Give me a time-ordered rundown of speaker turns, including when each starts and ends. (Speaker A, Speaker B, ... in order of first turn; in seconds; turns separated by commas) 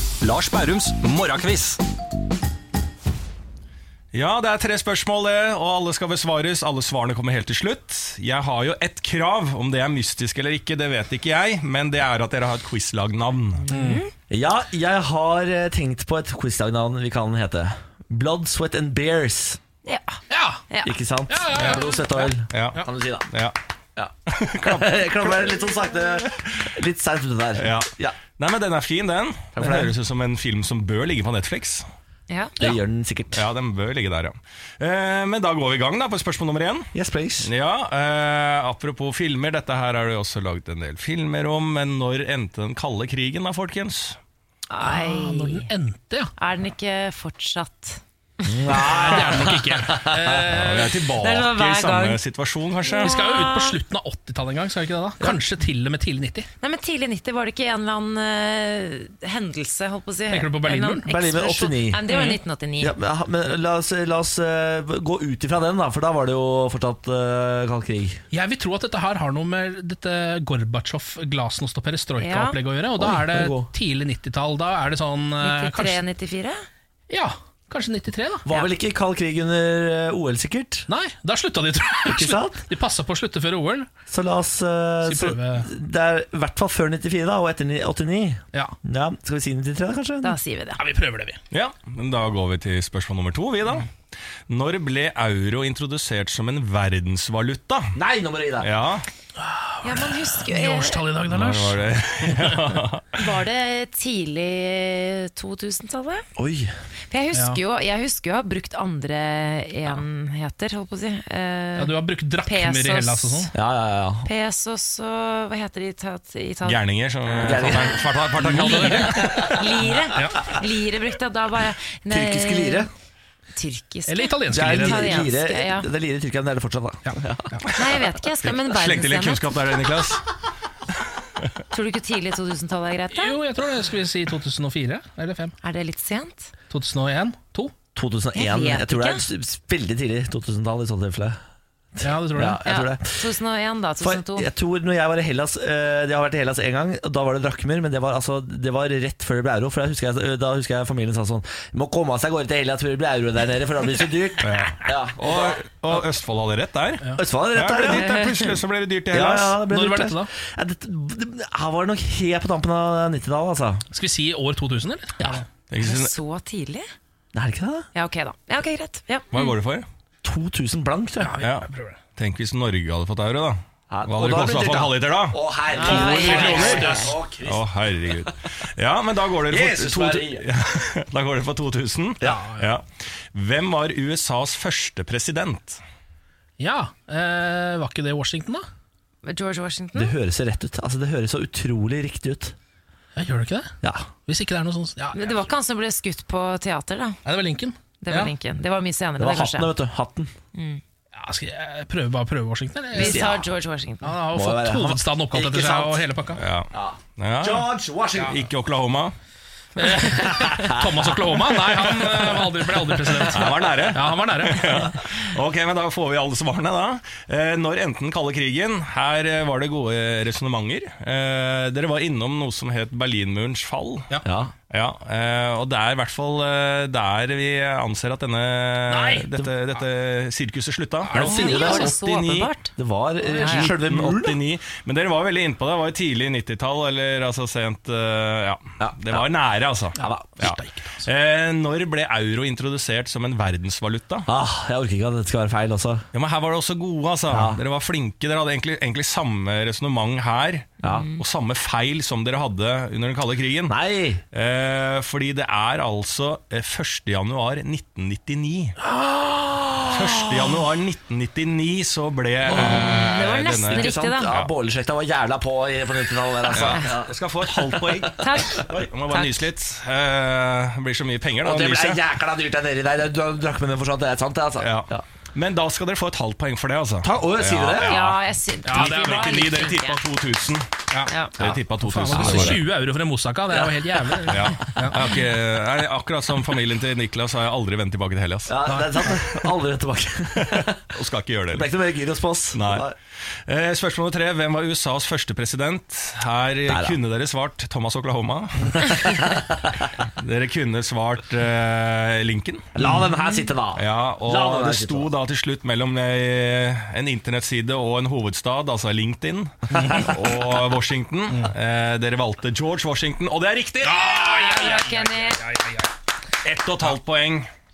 Speaker A: 0.2-1.8, Speaker A: 4.1-13.7, Speaker B: 13.7-14.1, Speaker C: 13.7-14.0, Speaker D: 14.3-19.6, Speaker B: 19.9-20.9, Speaker C: 20.3-20.6, Speaker D: 20.8-23.3, Speaker C: 21.3-22.8, Speaker A: 22.5-23.6, Speaker D: 24.0-28.2, Speaker A: 24.3-24.9, Speaker A: 27.6-31.9, Speaker D: 29.6-29.9, Speaker B: 32.3-32.6, Speaker D: 32.6-33.5, Speaker A: 33.3-36.9, Speaker D: 36.9-37.5, Speaker A: 37.4-44.2, Speaker B: 44.7-45.7, Speaker C: 44.8-46.3, Speaker B: 46.4-48.7, Speaker D: 48.5-50.4, Speaker C: 48.8-51.0, Speaker A: 50.5-53.1, Speaker B: 51.1-52.2, Speaker B: 52.9-53.8, Speaker C: 53.0-56.5, Speaker B: 56.6-63.0, Speaker C: 60.3-61.1, Speaker D: 61.1-62.0, Speaker C: 62.1-62.4, Speaker D: 62.8-68.2, Speaker C: 68.3-76.0, Speaker B: 72.2-72.6, Speaker D: 73.0-73.7, Speaker B: 75.4-76.6, Speaker C: 77.1-78.5, Speaker D: 78.5-80.9, Speaker C: 80.9-83.9, Speaker D: 82.1-82.6, Speaker D: 84.1-90.4, Speaker C: 85.0-85.7, Speaker B: 90.2-90.8, Speaker C: 90.8-91.4, Speaker A: 91.5-93.9, Speaker A: 94.5-98.0, Speaker D: 98.0-98.7, Speaker A: 98.6-99.1, Speaker C: 99.4-102.7, Speaker B: 99.8-101.0, Speaker A: 101.3-103.2, Speaker B: 103.2-106.3, Speaker D: 106.4-106.7, Speaker B: 107.1-113.5, Speaker C: 107.3-107.6, Speaker C: 111.8-113.5, Speaker D: 113.5-114.3, Speaker B: 114.2-116.8, Speaker A: 116.6-119.8, Speaker D: 117.4-118.8, Speaker C: 118.4-119.4, Speaker B: 118.5-122.9, Speaker D: 122.1-122.9, Speaker B: 123.6-125.9, Speaker C: 124.1-125.3, Speaker D: 124.5-127.5, Speaker C: 127.1-127.7, Speaker B: 127.7-129.5, Speaker A: 128.4-130.2, Speaker B: 131.7-133.4, Speaker C: 133.1-135.6, Speaker B: 135.6-136.5, Speaker C: 136.7-137.7, Speaker D: 137.9-141.4, Speaker B: 138.3-139.2, Speaker D: 142.0-143.3, Speaker C: 142.0-142.6, Speaker B: 142.7-144.5, Speaker D: 144.0-155.6, Speaker A: 154.4-159.6, Speaker D: 157.2-158.2, Speaker D: 159.1-163.8, Speaker C: 159.7-160.3, Speaker C: 163.9-165.4, Speaker D: 165.2-165.4, Speaker A: 165.7-166.1, Speaker B: 165.8-166.9, Speaker D: 167.3-167.9, Speaker B: 167.9-169.5, Speaker A: 169.3-169.9, Speaker D: 170.2-171.3, Speaker C: 171.2-172.0, Speaker A: 171.4-185.8, Speaker D: 173.9-178.3, Speaker B: 175.7-177.2, Speaker C: 175.9-177.0, Speaker D: 179.5-180.5, Speaker C: 182.2-182.7, Speaker C: 186.6-188.7, Speaker B: 189.2-190.1, Speaker D: 189.9-192.6, Speaker C: 193.2-193.7, Speaker C: 194.3-195.3, Speaker B: 195.1-197.2, Speaker C: 197.2-198.3, Speaker B: 198.0-199.7, Speaker D: 199.2-200.3, Speaker B: 200.6-200.8, Speaker C: 201.2-203.3, Speaker B: 202.9-204.2, Speaker D: 202.9-203.4, Speaker C: 204.0-206.4, Speaker D: 204.3-206.0, Speaker A: 206.4-207.7, Speaker D: 206.7-208.4, Speaker A: 208.2-209.2, Speaker C: 209.8-214.9, Speaker D: 210.1-211.0, Speaker A: 211.8-212.5, Speaker A: 213.2-224.1, Speaker D: 224.2-224.5, Speaker A: 224.7-232.5, Speaker C: 228.9-229.3, Speaker C: 231.0-231.9, Speaker D: 231.1-231.9, Speaker B: 231.2-232.7, Speaker D: 232.8-234.4, Speaker C: 233.3-233.7, Speaker B: 233.4-233.7, Speaker A: 233.8-244.3, Speaker D: 238.8-239.2, Speaker D: 240.0-240.3, Speaker C: 240.0-241.1, Speaker D: 244.3-246.1, Speaker A: 246.1-253.7, Speaker D: 247.3-247.6, Speaker D: 250.8-251.1, Speaker B: 250.8-251.2, Speaker D: 253.7-254.2, Speaker A: 254.3-258.8, Speaker C: 259.0-259.9, Speaker A: 259.9-264.5, Speaker D: 262.5-262.9, Speaker B: 262.5-264.4, Speaker D: 263.7-268.1, Speaker A: 266.5-272.0, Speaker B: 268.2-269.5, Speaker D: 268.6-268.9, Speaker D: 271.4-275.0, Speaker A: 274.6-278.2, Speaker D: 277.0-278.0, Speaker B: 277.8-280.0, Speaker C: 278.6-279.5, Speaker A: 278.7-280.7, Speaker B: 281.1-281.3, Speaker A: 281.4-282.6, Speaker D: 281.4-282.6, Speaker C: 281.8-285.0, Speaker D: 283.5-284.3, Speaker A: 284.3-288.6, Speaker D: 288.5-290.8, Speaker C: 288.7-288.9, Speaker A: 290.4-291.7, Speaker D: 291.5-292.9, Speaker A: 292.5-292.9, Speaker A: 293.4-299.1, Speaker D: 296.7-297.0, Speaker D: 298.9-299.8, Speaker A: 300.2-302.7, Speaker D: 302.8-305.1, Speaker A: 303.8-314.1, Speaker C: 309.8-310.0, Speaker D: 309.8-310.1, Speaker C: 313.8-315.9, Speaker B: 314.1-315.4, Speaker A: 316.4-317.5